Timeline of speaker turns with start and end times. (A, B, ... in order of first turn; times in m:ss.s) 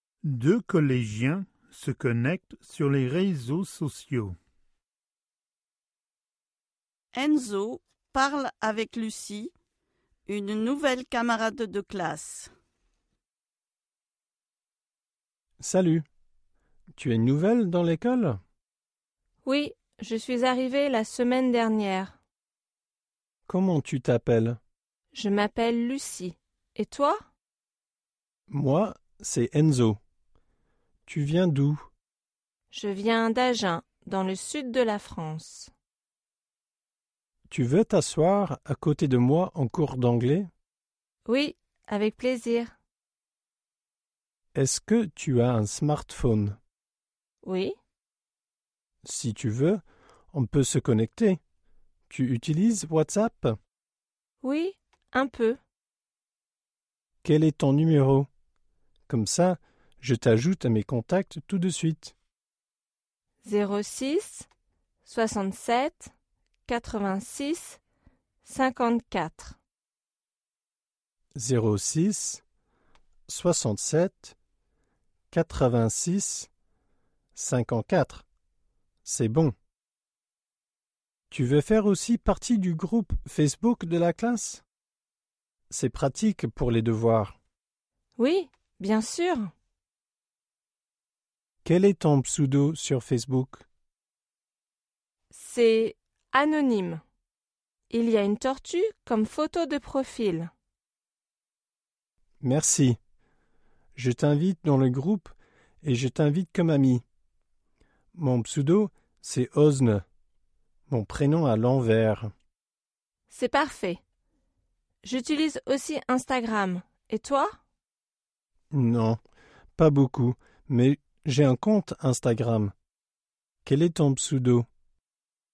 0:00.2-0:04.4 A
0:07.1-0:09.5 B
0:10.3-0:12.5 B
0:15.6-0:16.0 C
0:17.0-0:18.4 C
0:19.4-0:22.2 D
0:23.5-0:24.6 C
0:25.1-0:27.2 D
0:28.5-0:30.0 C
0:31.1-0:31.9 C
0:32.7-0:35.7 D
0:37.5-0:40.5 C
0:41.3-0:42.7 D
0:44.6-0:46.6 C
0:47.4-0:47.8 D
0:49.0-0:51.4 C
0:52.1-0:53.5 C
0:54.4-0:55.6 D
0:57.2-0:58.3 C
0:59.1-1:02.2 C
1:03.4-1:04.5 D
1:05.0-1:06.1 D
1:06.7-1:07.8 D
1:08.4-1:09.6 D
1:11.4-1:12.4 C
1:13.3-1:14.4 C
1:15.3-1:16.5 C
1:17.4-1:18.2 C
1:19.0-1:19.5 C
1:21.3-1:24.6 C
1:25.7-1:27.4 C
1:28.2-1:29.5 D
1:31.6-1:33.6 C
1:35.3-1:37.0 D
1:37.9-1:40.5 D
1:42.4-1:43.0 C
1:44.0-1:47.0 C
1:48.2-1:50.0 C
1:50.9-1:52.3 C
1:53.3-1:54.0 D
1:55.0-1:57.5 D
1:58.7-1:59.2 C
1:59.8-2:02.7 C
2:03.6-2:04.7 C